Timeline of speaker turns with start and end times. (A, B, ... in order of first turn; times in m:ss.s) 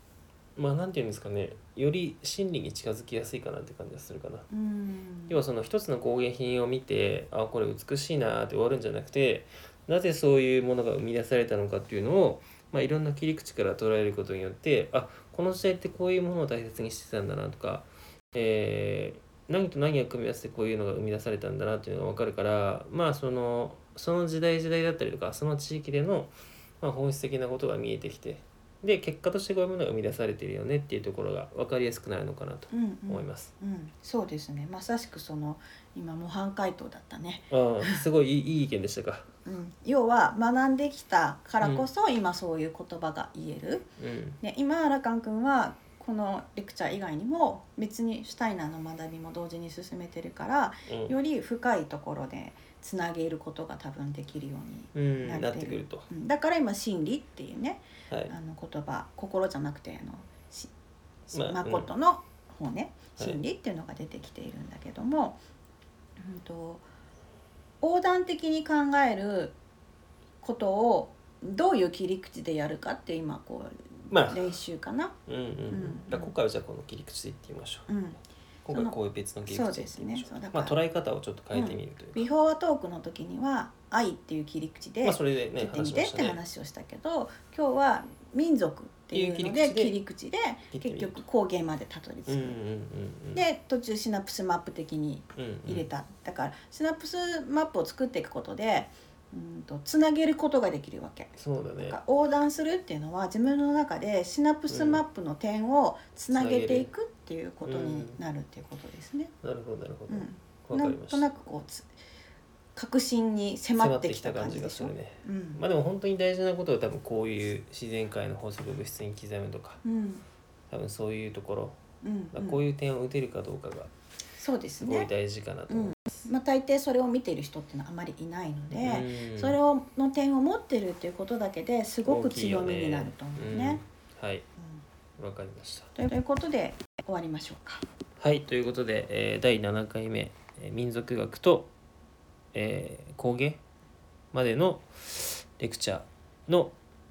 0:00.6-0:04.5 A
0:04.5-0:05.4 B
0:05.3-0:33.5 A
0:32.7-0:38.0 B
0:37.5-0:39.3 A
0:39.4-0:43.9 B
0:41.6-0:41.9 A
0:44.0-0:44.4 A
0:44.4-1:00.7 B
0:50.9-0:51.1 A
0:54.9-0:56.1 A
0:58.1-0:58.4 A
1:01.3-1:01.9 A
1:01.3-1:05.4 B
1:06.2-1:06.8 B
1:07.8-1:09.6 B
1:10.4-1:15.2 B
1:14.1-1:14.6 A
1:15.3-1:17.9 A
1:15.7-1:16.4 B
1:17.9-1:18.2 B
1:18.6-1:22.3 A
1:18.7-1:19.0 B
1:19.5-1:20.8 B
1:21.5-1:32.6 B
1:25.0-1:26.4 A
1:29.1-1:30.0 A
1:30.7-1:31.2 A
1:32.3-1:33.4 A
1:33.3-1:49.3 B
1:35.4-1:35.9 A
1:41.4-1:42.0 A
1:44.7-1:45.0 A
1:46.3-1:46.9 A
1:47.6-1:48.2 A
1:49.4-1:51.3 A
1:50.1-1:51.9 B
1:52.8-1:55.6 B
1:53.8-1:59.8 A
1:59.8-2:00.2 B
2:00.7-2:01.8 A
2:02.0-2:02.6 B
2:02.3-2:03.9 A
2:04.4-2:05.1 B
2:04.8-2:06.2 A
2:05.7-2:13.8 B
2:08.7-2:09.6 A
2:12.0-2:14.5 A
2:15.2-2:15.9 A
2:16.0-2:17.9 B
2:18.2-2:21.7 A
2:22.5-2:23.6 A
2:24.3-2:26.8 A